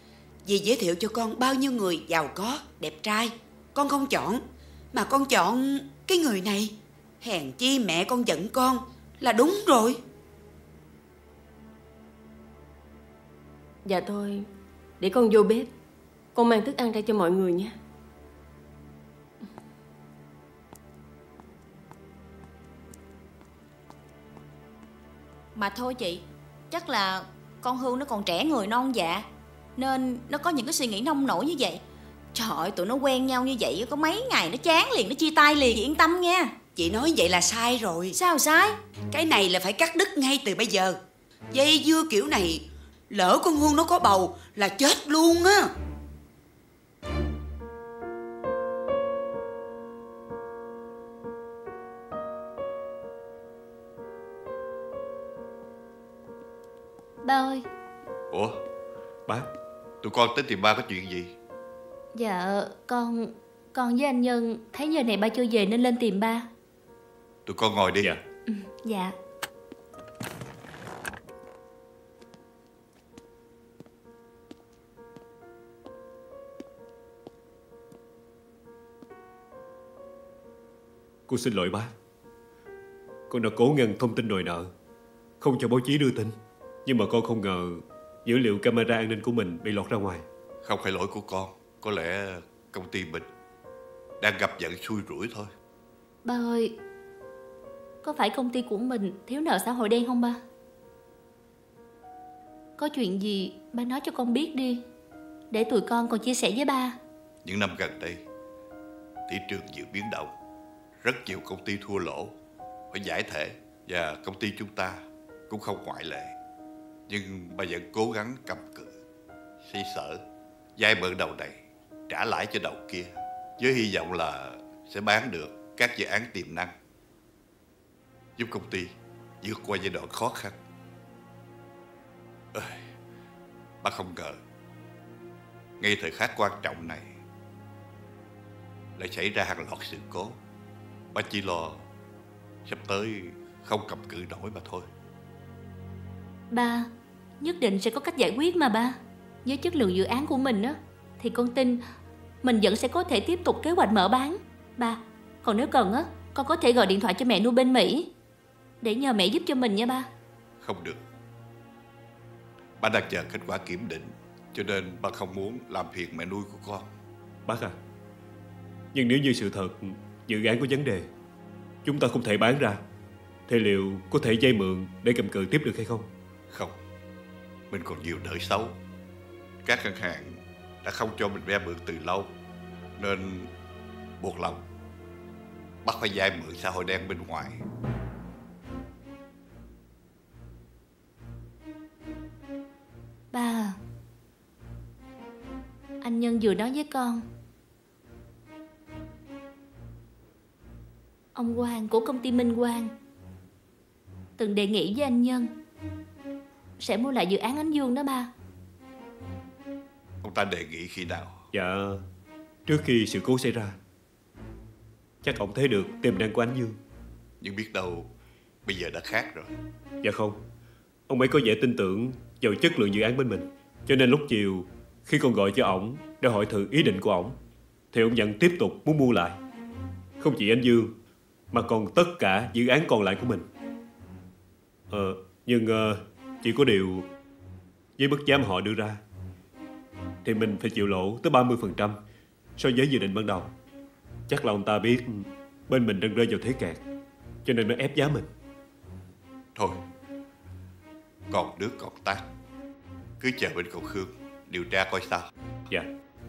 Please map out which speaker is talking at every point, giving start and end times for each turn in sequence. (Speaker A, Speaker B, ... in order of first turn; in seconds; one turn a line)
Speaker A: 0.4-10.0
Speaker B: 13.8-14.5
Speaker B: 15.0-15.7
Speaker B: 16.3-17.7
Speaker C: 25.6-31.8
Speaker C: 32.3-36.5
Speaker A: 36.7-38.2
Speaker C: 38.1-38.8
Speaker A: 39.1-41.0
Speaker A: 41.5-45.7
Speaker D: 57.2-57.6
Speaker E: 58.3-58.6
Speaker E: 60.0-61.3
Speaker D: 62.1-66.5
Speaker E: 67.5-68.1
Speaker D: 68.5-69.1
Speaker F: 81.3-81.9
Speaker F: 83.3-84.7
Speaker F: 85.4-86.3
Speaker F: 86.8-90.2
Speaker E: 90.6-93.3
Speaker E: 94.2-95.5
Speaker D: 96.2-96.7
Speaker D: 98.0-100.4
Speaker D: 102.8-104.8
Speaker D: 105.5-107.0
Speaker E: 107.4-108.2
Speaker E: 109.3-110.3
Speaker E: 111.0-112.3
Speaker E: 112.9-116.3
Speaker E: 117.1-118.9
Speaker E: 119.6-120.2
Speaker E: 120.8-126.7
Speaker E: 128.4-130.6
Speaker E: 132.5-132.9
Speaker E: 133.8-134.4
Speaker E: 135.8-137.1
Speaker E: 139.0-140.3
Speaker E: 141.1-141.8
Speaker E: 142.7-144.9
Speaker D: 146.5-146.9
Speaker D: 147.4-151.8
Speaker D: 152.4-158.1
Speaker D: 158.8-160.1
Speaker E: 160.6-161.0
Speaker E: 162.8-166.9
Speaker F: 167.4-167.7
Speaker F: 168.9-171.1
Speaker F: 171.8-172.8
Speaker F: 173.5-176.1
Speaker E: 177.7-178.8
Speaker E: 179.6-182.3
Speaker E: 183.0-183.5
Speaker E: 184.2-184.6
Speaker E: 185.8-187.6
Speaker D: 193.3-193.8
Speaker D: 196.0-197.2
Speaker D: 201.3-202.9
Speaker D: 204.4-205.5
Speaker D: 206.8-208.3
Speaker E: 210.2-211.4
Speaker F: 211.5-212.0
Speaker F: 212.7-213.8
Speaker F: 215.2-216.8
Speaker E: 217.4-218.1
Speaker E: 218.6-219.5
Speaker F: 220.0-220.3
Speaker F: 221.1-227.3
Speaker F: 227.9-229.4
Speaker F: 230.2-230.9
Speaker F: 231.5-233.5
Speaker F: 234.9-237.1
Speaker F: 238.0-239.0
Speaker F: 240.2-242.0
Speaker F: 242.6-243.5
Speaker F: 244.3-246.8
Speaker F: 247.4-248.3
Speaker E: 249.5-249.8
Speaker E: 251.3-252.2
Speaker E: 253.2-255.3